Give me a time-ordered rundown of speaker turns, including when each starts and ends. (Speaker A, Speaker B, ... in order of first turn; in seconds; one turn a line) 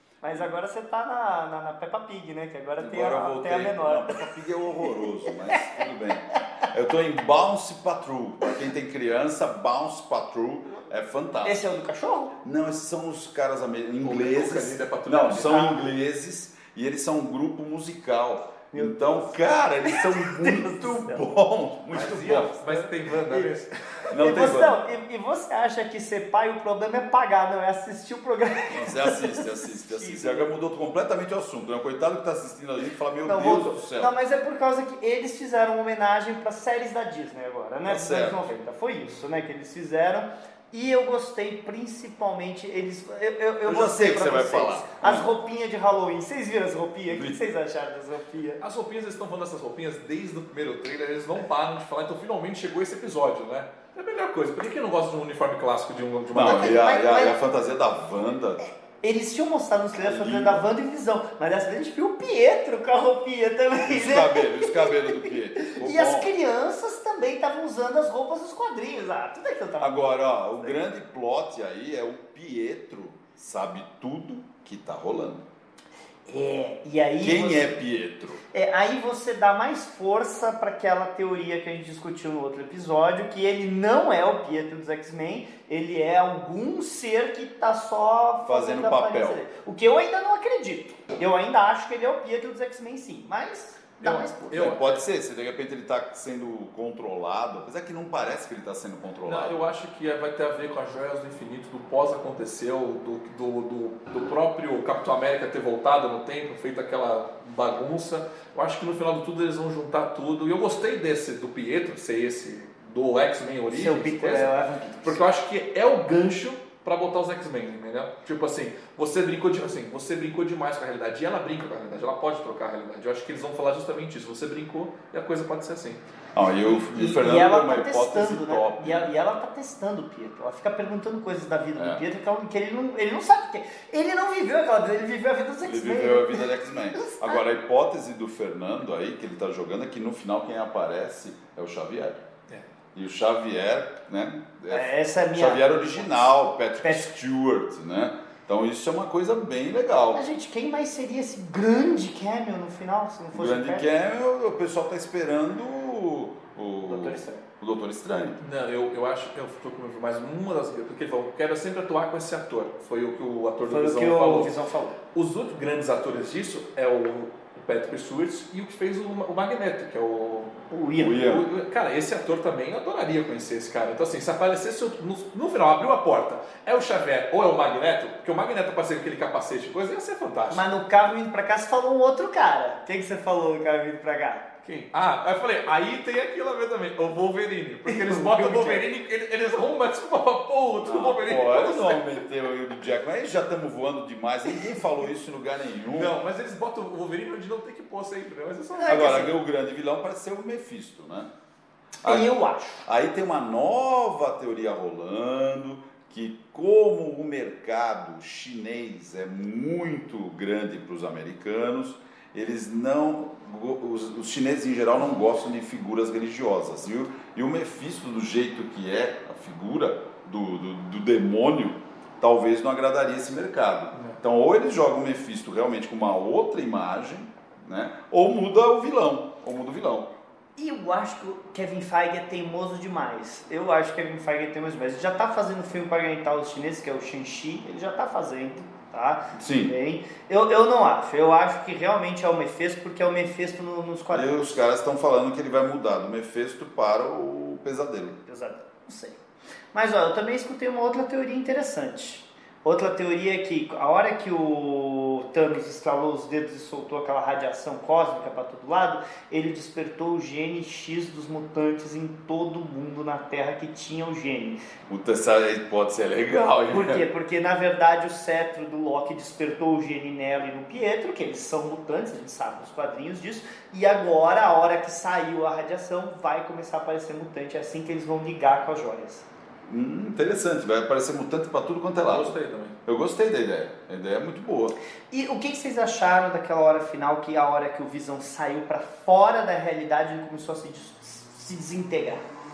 Speaker A: 0.2-4.3
Speaker B: 2.8-11.7
Speaker A: 4.8-5.7
Speaker A: 11.4-12.3
Speaker B: 12.4-22.8
Speaker C: 14.0-15.8
Speaker A: 15.4-15.8
Speaker A: 18.7-21.2
Speaker C: 21.9-24.7
Speaker B: 24.1-24.7
Speaker A: 24.1-30.5
Speaker B: 28.7-34.1
Speaker A: 33.2-48.6
Speaker B: 37.9-38.4
Speaker B: 43.6-45.3
Speaker B: 47.1-47.4
Speaker C: 48.6-56.8
Speaker B: 56.3-58.6
Speaker A: 56.4-57.4
Speaker A: 58.6-70.8
Speaker B: 60.0-60.6
Speaker B: 63.9-66.3
Speaker B: 69.8-75.4
Speaker A: 76.3-77.8
Speaker B: 77.2-78.4
Speaker A: 78.5-94.7
Speaker B: 88.4-89.4
Speaker B: 94.0-99.6
Speaker C: 94.3-94.9
Speaker C: 99.2-126.0
Speaker A: 113.7-115.2
Speaker B: 126.3-129.1
Speaker A: 126.7-137.4
Speaker B: 131.8-132.0
Speaker B: 135.6-142.2
Speaker B: 142.9-150.2
Speaker A: 144.7-146.3
Speaker A: 146.8-147.1
Speaker A: 150.1-153.8
Speaker B: 153.3-158.4
Speaker A: 156.9-157.4
Speaker C: 158.4-164.5
Speaker A: 163.6-164.9
Speaker C: 165.1-170.6
Speaker A: 170.7-171.2
Speaker B: 171.0-171.4
Speaker C: 171.1-180.7
Speaker A: 180.5-184.4
Speaker C: 184.6-192.2
Speaker A: 187.8-188.9
Speaker B: 190.8-196.1
Speaker C: 195.9-199.3
Speaker A: 198.8-199.3
Speaker B: 198.9-201.3
Speaker B: 202.0-230.1
Speaker A: 202.0-202.8
Speaker A: 230.6-244.3
Speaker B: 239.3-239.7
Speaker B: 244.1-248.2
Speaker A: 248.3-249.2
Speaker A: 249.7-264.6
Speaker B: 264.9-267.0
Speaker A: 266.7-279.2
Speaker B: 279.7-282.3
Speaker C: 282.0-282.8
Speaker B: 282.9-284.7
Speaker A: 285.1-292.2